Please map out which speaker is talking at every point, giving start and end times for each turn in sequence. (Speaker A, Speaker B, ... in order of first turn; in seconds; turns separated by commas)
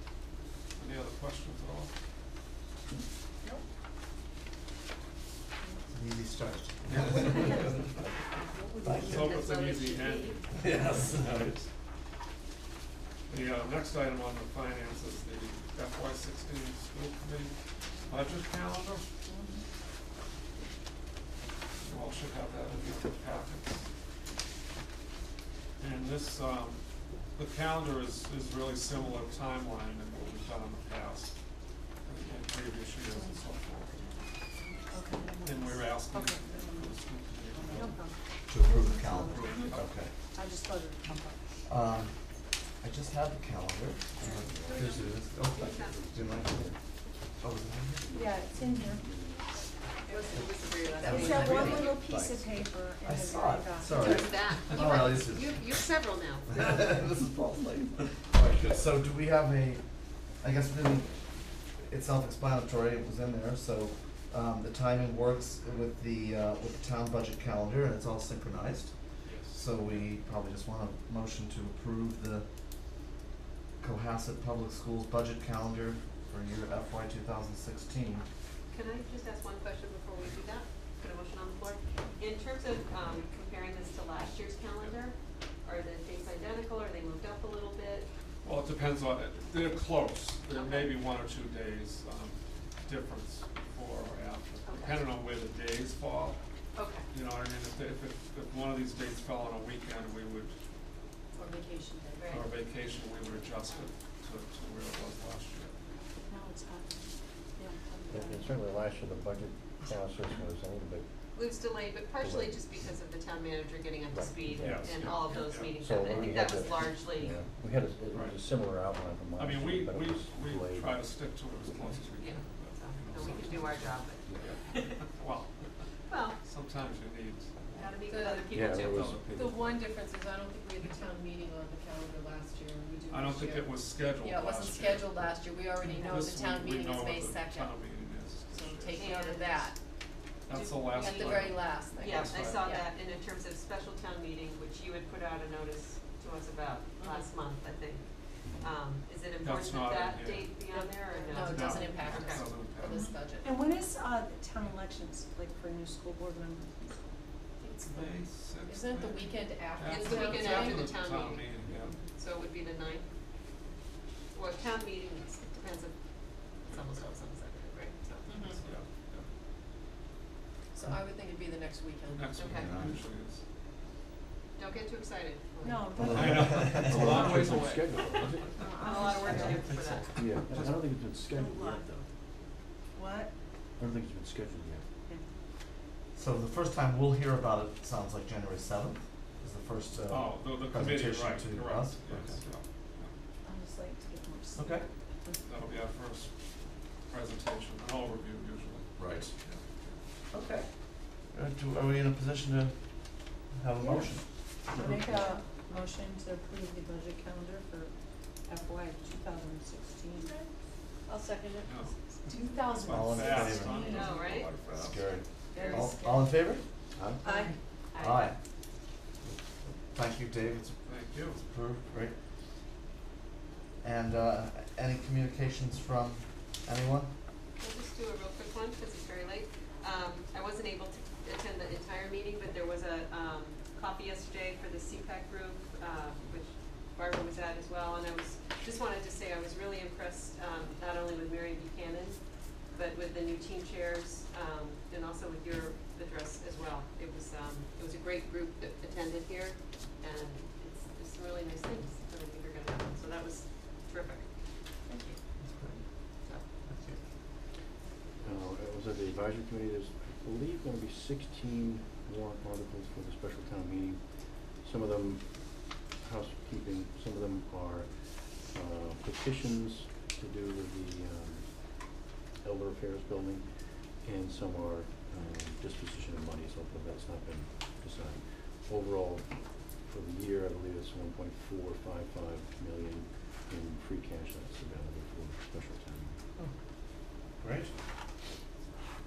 Speaker A: 0.8-1.9, Speaker B: 5.9-7.9, Speaker A: 6.8-7.6, Speaker C: 7.2-7.5, Speaker D: 7.3-7.8, Speaker D: 8.3-9.2, Speaker B: 8.8-9.3, Speaker A: 9.0-11.7, Speaker C: 9.0-10.4, Speaker B: 10.6-11.6, Speaker A: 13.3-19.1, Speaker D: 19.3-19.6, Speaker A: 21.8-23.9, Speaker A: 25.8-26.8, Speaker A: 27.4-31.4, Speaker A: 32.0-34.2, Speaker D: 33.1-36.9, Speaker A: 35.4-38.0, Speaker D: 37.5-39.7, Speaker B: 38.5-40.1, Speaker A: 39.3-39.9, Speaker E: 39.8-40.1, Speaker D: 40.3-41.4, Speaker B: 41.7-42.1, Speaker B: 42.8-46.7, Speaker C: 44.2-44.9, Speaker E: 44.3-46.8, Speaker C: 45.5-46.0, Speaker B: 47.4-48.0, Speaker E: 48.0-49.7, Speaker D: 48.1-49.0, Speaker F: 50.1-51.9, Speaker C: 50.1-52.0, Speaker B: 51.0-52.0, Speaker D: 51.0-54.4, Speaker E: 51.9-52.7, Speaker B: 53.0-55.8, Speaker C: 53.9-57.0, Speaker B: 56.5-61.2, Speaker B: 61.8-68.9, Speaker A: 69.2-70.1, Speaker B: 69.5-72.5, Speaker B: 73.8-78.3, Speaker C: 78.7-88.1, Speaker A: 88.4-96.4, Speaker C: 90.5-91.0, Speaker C: 94.7-95.1, Speaker C: 96.8-97.1, Speaker A: 97.1-100.5, Speaker F: 101.3-102.3, Speaker C: 102.2-102.5, Speaker A: 102.3-105.7, Speaker D: 106.3-108.5, Speaker E: 108.1-111.1, Speaker C: 111.3-117.4, Speaker E: 112.1-112.9, Speaker E: 114.1-115.0, Speaker A: 114.6-116.5, Speaker E: 115.7-121.1, Speaker A: 119.4-125.6, Speaker C: 122.2-125.0, Speaker E: 124.3-124.5, Speaker C: 126.1-126.4, Speaker A: 126.4-129.6, Speaker C: 127.8-129.2, Speaker F: 128.1-128.5, Speaker E: 128.5-129.6, Speaker F: 129.3-137.9, Speaker A: 133.1-135.4, Speaker C: 135.8-136.3, Speaker A: 135.9-139.1, Speaker F: 138.5-139.8, Speaker C: 139.0-139.7, Speaker A: 140.5-142.7, Speaker C: 140.5-152.5, Speaker F: 140.9-142.9, Speaker E: 148.4-148.7, Speaker A: 149.4-150.5, Speaker F: 150.7-153.5, Speaker A: 151.3-153.1, Speaker D: 152.9-157.1, Speaker F: 157.6-160.9, Speaker A: 157.8-162.0, Speaker C: 159.9-161.5, Speaker E: 161.6-161.9, Speaker C: 162.2-163.1, Speaker C: 164.3-165.9, Speaker C: 166.6-168.7, Speaker F: 168.3-168.6, Speaker A: 168.6-169.3, Speaker F: 170.7-172.4, Speaker A: 172.1-173.4, Speaker C: 172.3-172.8, Speaker B: 172.5-173.0, Speaker C: 174.6-176.2, Speaker D: 175.6-177.4, Speaker B: 176.0-177.5, Speaker A: 176.1-178.2, Speaker E: 176.7-182.1, Speaker D: 178.6-179.8, Speaker C: 178.8-180.3, Speaker D: 181.3-181.8, Speaker D: 183.0-183.3, Speaker E: 183.8-184.8, Speaker B: 186.2-192.4, Speaker A: 190.1-193.1, Speaker D: 193.4-195.4, Speaker B: 194.6-194.8, Speaker A: 195.4-196.3, Speaker A: 197.1-200.0, Speaker B: 199.0-199.3, Speaker B: 200.3-200.7, Speaker B: 201.3-202.8, Speaker B: 203.5-204.3, Speaker D: 203.8-204.1, Speaker E: 204.7-205.2, Speaker D: 204.7-207.9, Speaker D: 208.5-210.5, Speaker D: 211.1-211.7, Speaker A: 211.6-211.9, Speaker D: 212.2-214.2, Speaker A: 212.8-215.1, Speaker B: 212.8-214.0, Speaker C: 213.6-214.5, Speaker B: 214.7-216.6, Speaker C: 215.5-215.9, Speaker D: 215.5-216.4, Speaker E: 216.9-217.5, Speaker D: 217.2-217.6, Speaker C: 217.9-218.3, Speaker B: 218.0-218.4, Speaker B: 219.2-222.1, Speaker A: 220.8-221.4, Speaker B: 223.8-227.1, Speaker C: 227.6-242.2, Speaker C: 242.7-254.3, Speaker C: 254.9-255.2, Speaker B: 255.4-255.8, Speaker B: 256.7-257.0, Speaker E: 258.2-264.0, Speaker E: 264.6-273.5, Speaker E: 274.0-279.3, Speaker E: 279.9-286.2, Speaker B: 287.4-287.7